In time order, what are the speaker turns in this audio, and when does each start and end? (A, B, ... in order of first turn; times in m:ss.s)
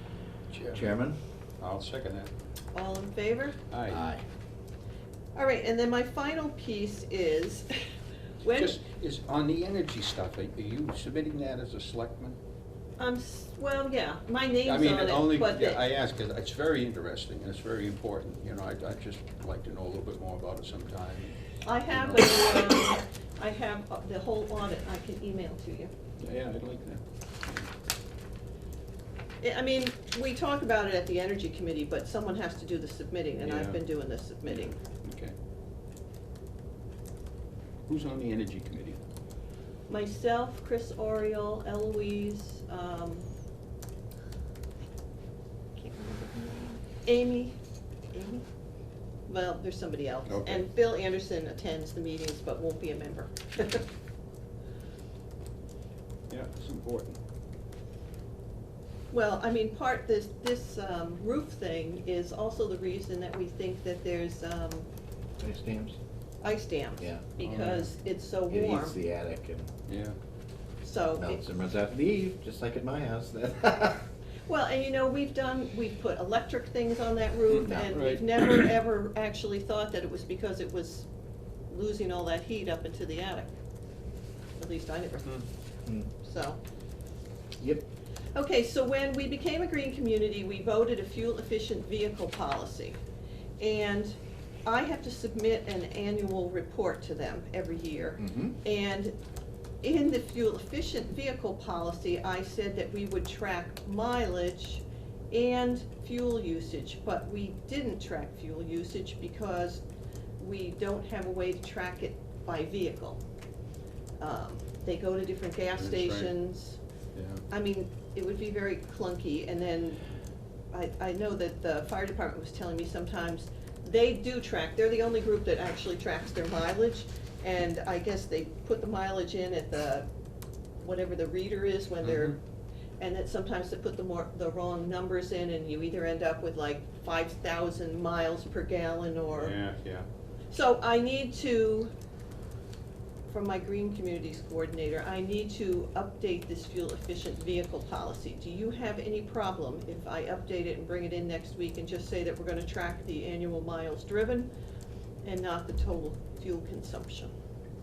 0:00.5-0:01.0 A
0:00.7-0:01.2 B
0:01.6-0:02.3 A
0:02.7-0:03.6 C
0:03.7-0:04.0 A
0:03.9-0:04.2 B
0:05.3-0:07.8 C
0:08.4-0:08.7 C
0:08.4-0:12.4 A
0:13.0-0:15.8 C
0:14.6-0:22.5 A
0:21.6-0:25.9 C
0:26.2-0:27.7 A
0:29.4-0:34.7 C
0:33.4-0:35.3 A
0:37.9-0:39.0 A
0:39.9-0:43.3 C
0:45.8-0:47.6 C
0:48.1-0:48.4 C
0:49.3-0:53.8 C
0:50.2-0:50.7 A
0:56.3-0:57.2 A
0:59.1-1:04.9 C
1:05.4-1:06.0 B
1:06.4-1:08.9 C
1:07.0-1:07.3 B
1:07.4-1:07.9 A
1:08.5-1:09.7 B
1:09.9-1:10.2 A
1:10.8-1:11.4 C
1:11.2-1:14.0 B
1:14.5-1:21.1 C
1:17.5-1:18.7 A
1:17.7-1:18.0 B
1:21.7-1:23.5 C
1:24.6-1:25.3 C
1:26.2-1:26.6 C
1:27.6-1:27.9 B
1:28.3-1:33.0 C
1:33.6-1:39.2 C
1:38.2-1:38.5 B
1:39.8-1:49.8 C
1:50.4-1:53.2 C
1:54.2-1:56.8 C
1:55.7-1:56.4 A
1:57.1-1:57.4 A
1:57.5-2:00.0 C
2:00.7-2:10.1 C
2:10.8-2:12.4 C
2:12.0-2:12.4 A
2:13.0-2:19.5 C
2:19.3-2:20.1 A
2:20.5-2:21.9 C
2:23.3-2:34.5 C
2:35.2-2:37.3 C